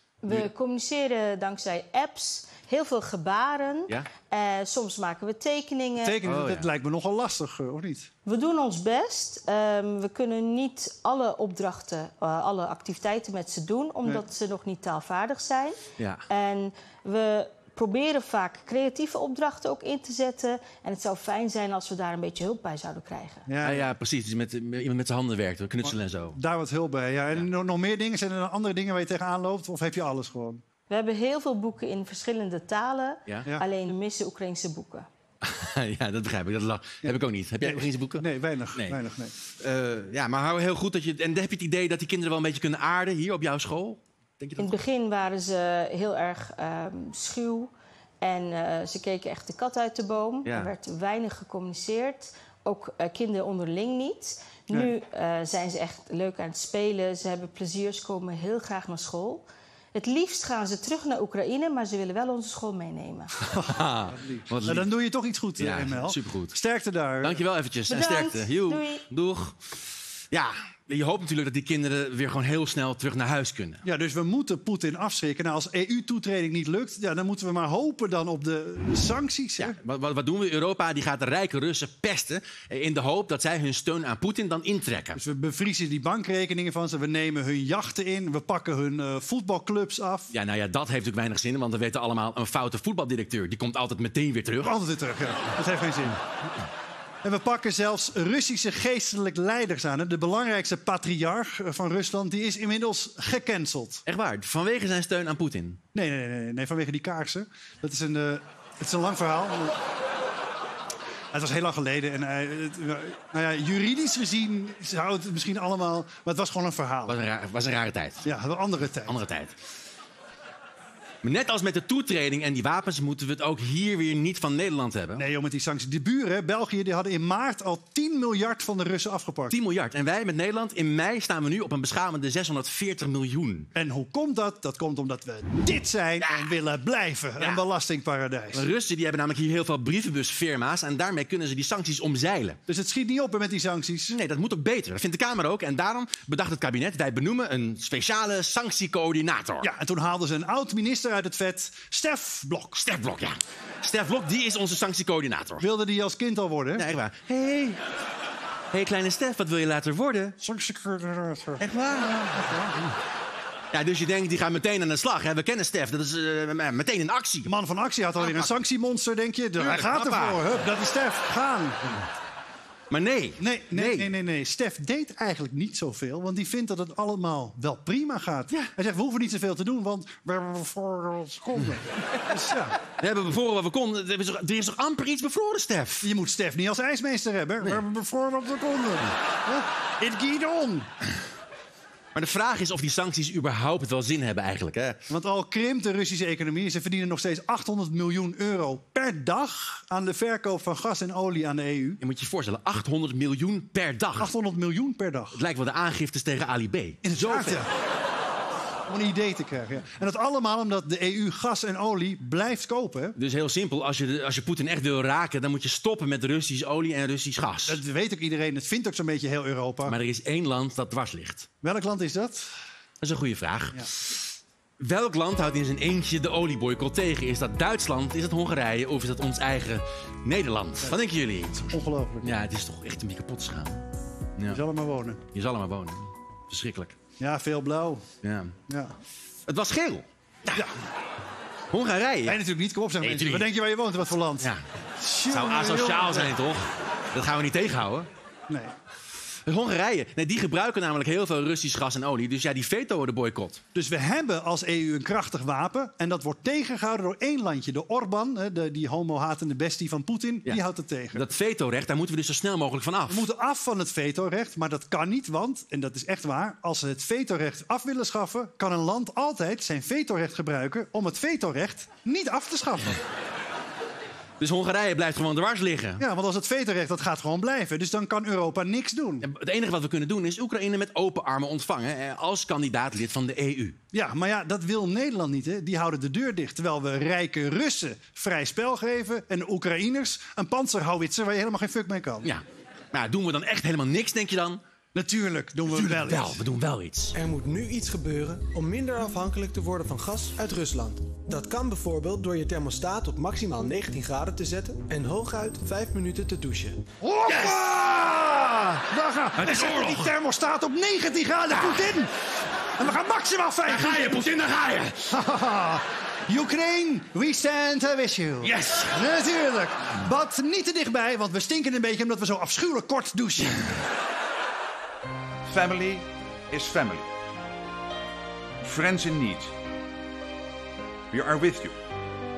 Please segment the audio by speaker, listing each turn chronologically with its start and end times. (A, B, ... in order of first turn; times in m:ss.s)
0:00.2-0:06.2 A
0:06.0-0:08.1 B
0:06.2-0:06.7 C
0:08.2-0:23.5 A
0:23.5-0:23.8 B
0:23.6-0:26.4 C
0:25.8-0:30.6 B
0:30.9-0:35.1 A
0:35.4-0:39.0 C
0:37.6-0:39.3 B
0:39.6-0:44.8 C
0:44.6-1:03.4 A
1:03.5-1:07.4 B
1:03.7-1:04.9 C
1:05.6-1:06.5 C
1:07.2-1:09.6 C
1:07.9-1:09.0 A
1:10.3-1:13.8 C
1:13.8-1:19.8 B
1:19.6-1:25.2 C
1:25.1-1:30.3 B
1:30.3-1:34.7 C
1:34.6-1:36.2 B
1:37.2-1:44.0 B
1:44.1-1:45.8 C
1:45.9-1:49.8 B
1:51.3-1:57.2 B
1:57.1-1:58.2 C
1:58.2-1:59.2 B
1:59.1-1:59.5 C
2:01.2-2:05.2 C
2:05.2-2:09.5 B
2:09.5-2:13.7 C
2:13.7-2:18.6 B
2:16.2-2:16.5 C
2:18.5-2:22.6 C
2:22.7-2:24.2 B
2:24.1-2:29.7 C
2:29.6-2:32.8 B
2:32.8-2:35.6 C
2:35.6-2:36.8 B
2:36.8-2:37.8 C
2:38.7-2:40.4 C
2:40.4-2:42.8 B
2:41.6-2:42.3 C
2:43.7-2:47.5 C
2:47.4-2:52.0 B
2:48.2-2:48.5 C
2:49.6-2:50.5 C
2:52.9-2:54.1 C
2:53.4-3:02.8 B
3:03.0-3:06.1 C
3:06.0-3:10.9 B
3:12.1-3:15.0 C
3:15.1-3:22.0 B
3:22.0-3:24.3 C
3:24.2-3:25.4 B
3:25.4-3:27.6 C
3:27.0-3:27.7 B
3:28.9-3:33.1 B
3:33.2-3:37.8 C
3:37.6-3:40.0 B
3:39.8-3:41.5 C
3:41.6-3:42.5 B
3:43.0-3:44.2 C
3:44.8-3:51.7 C
3:51.7-3:52.4 B
3:52.2-3:53.8 C
3:54.5-3:55.2 B
3:55.3-3:56.9 C
3:57.2-3:58.0 B
3:58.2-3:58.5 C
3:58.7-3:58.9 B
3:59.5-4:00.7 C
4:01.7-4:02.4 C
4:02.2-4:06.3 B
4:03.0-4:03.5 C
4:05.3-4:08.1 C
4:08.5-4:08.7 B
4:09.4-4:13.6 C
4:13.7-4:21.2 B
4:21.1-4:23.3 C
4:23.1-4:33.0 B
4:34.4-4:36.0 C
4:36.0-4:39.3 B
4:39.2-4:43.8 C
4:43.9-4:52.3 B
4:52.2-4:54.6 C
4:54.9-4:56.4 B
4:55.7-4:57.1 C
4:57.1-5:06.8 D
5:07.0-5:12.1 B
5:07.3-5:07.8 C
5:09.4-5:10.1 C
5:11.6-5:11.9 C
5:12.8-5:14.1 B
5:13.7-5:15.1 C
5:15.1-5:23.7 B
5:18.4-5:19.0 C
5:25.4-5:27.1 E
5:28.6-5:29.5 E
5:31.1-5:31.8 E